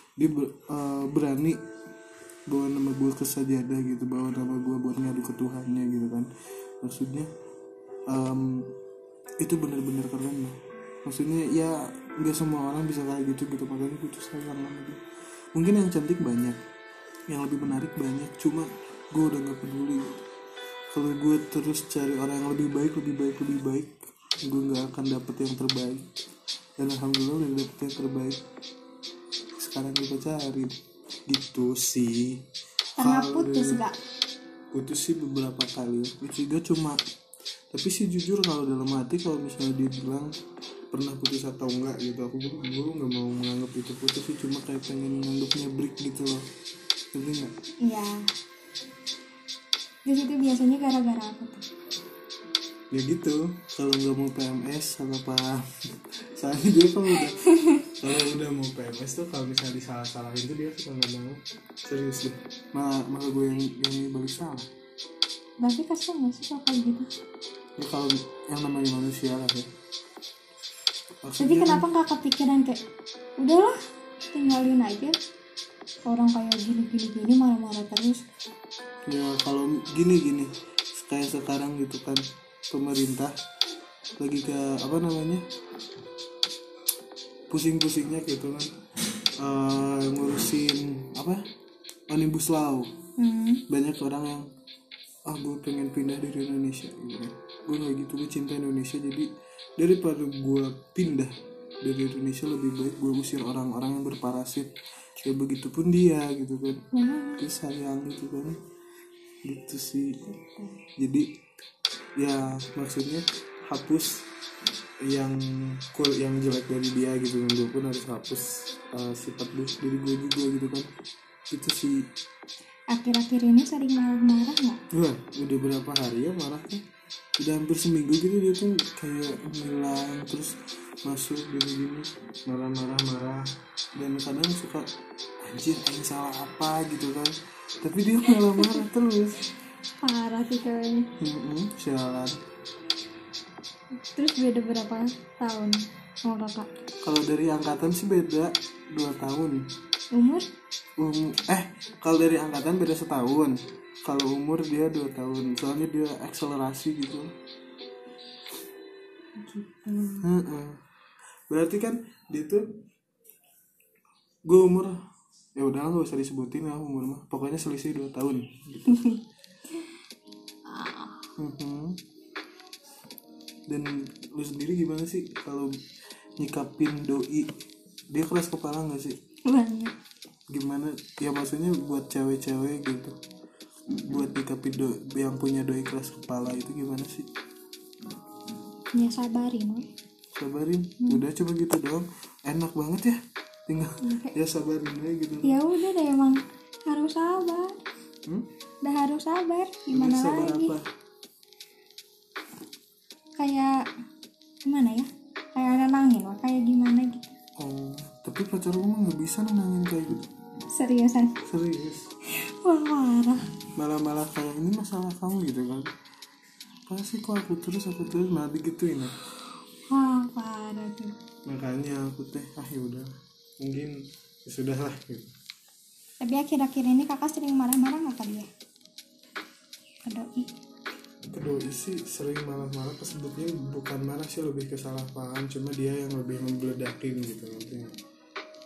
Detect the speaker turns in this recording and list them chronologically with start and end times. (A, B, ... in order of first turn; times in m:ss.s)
0:00.2-0:01.6 A
0:02.5-0:06.3 A
0:06.8-0:07.3 A
0:08.1-0:08.7 A
0:09.4-0:15.0 A
0:15.6-0:16.6 A
0:17.3-0:20.2 A
0:20.9-0:26.1 A
0:26.8-0:28.4 A
0:29.6-0:30.8 A
0:31.3-0:32.4 A
0:33.0-0:34.0 B
0:33.0-0:33.8 A
0:34.7-0:37.0 A
0:37.7-0:40.3 A
0:40.9-0:46.4 A
0:47.1-0:47.5 A
0:47.8-0:48.3 B
0:50.1-0:51.7 B
0:52.9-0:55.6 A
0:56.4-1:04.7 A
0:57.5-0:57.8 B
1:05.6-1:07.1 B
1:07.8-1:09.7 A
1:11.2-1:11.8 A
1:11.4-1:12.8 B
1:13.4-1:13.8 B
1:14.3-1:15.2 B
1:16.0-1:18.2 B
1:19.1-1:23.3 A
1:24.2-1:25.4 A
1:27.5-1:28.7 A
1:29.4-1:31.4 A
1:32.1-1:32.9 A
1:33.2-1:33.6 B
1:33.7-1:34.5 A
1:35.3-1:46.8 A
1:46.9-1:47.4 B
1:47.4-1:48.6 A
1:49.4-1:50.3 A
1:50.4-1:50.7 B
1:51.0-1:51.3 A
1:52.2-1:54.2 A
1:55.0-2:00.9 A
2:01.5-2:02.1 A
2:02.9-2:04.8 B
2:04.9-2:06.8 A
2:07.4-2:14.9 A
2:15.5-2:19.4 A
2:18.4-2:18.8 B
2:20.0-2:21.1 B
2:21.2-2:22.4 A
2:24.1-2:26.7 B
2:27.0-2:29.6 A
2:30.1-2:30.5 B
2:31.0-2:37.3 A
2:39.4-2:40.3 B
2:40.2-2:40.8 A
2:41.5-2:42.7 A
2:44.5-2:45.0 A
2:45.6-2:49.1 A
2:48.9-2:49.2 B
2:50.7-2:51.3 B
2:51.4-2:52.0 A
2:53.7-2:55.7 A
2:56.4-2:57.5 A
2:58.1-2:59.2 A
2:59.4-3:00.0 B
3:00.5-3:03.2 A
3:04.0-3:07.3 A
3:08.9-3:09.9 B
3:10.3-3:15.6 A
3:14.0-3:14.3 B
3:15.4-3:17.8 B
3:18.8-3:20.8 B
3:19.9-3:20.8 A
3:23.4-3:23.8 B
3:24.7-3:27.3 B
3:27.6-3:30.3 A
3:30.7-3:31.4 B
3:31.4-3:32.1 A
3:32.4-3:33.4 B
3:33.8-3:35.9 A
3:36.9-3:39.1 A
3:39.9-3:41.2 B
3:41.5-3:43.1 A
3:43.6-3:45.3 A
3:46.2-3:48.5 B
3:50.1-3:50.5 B
3:51.3-3:58.0 A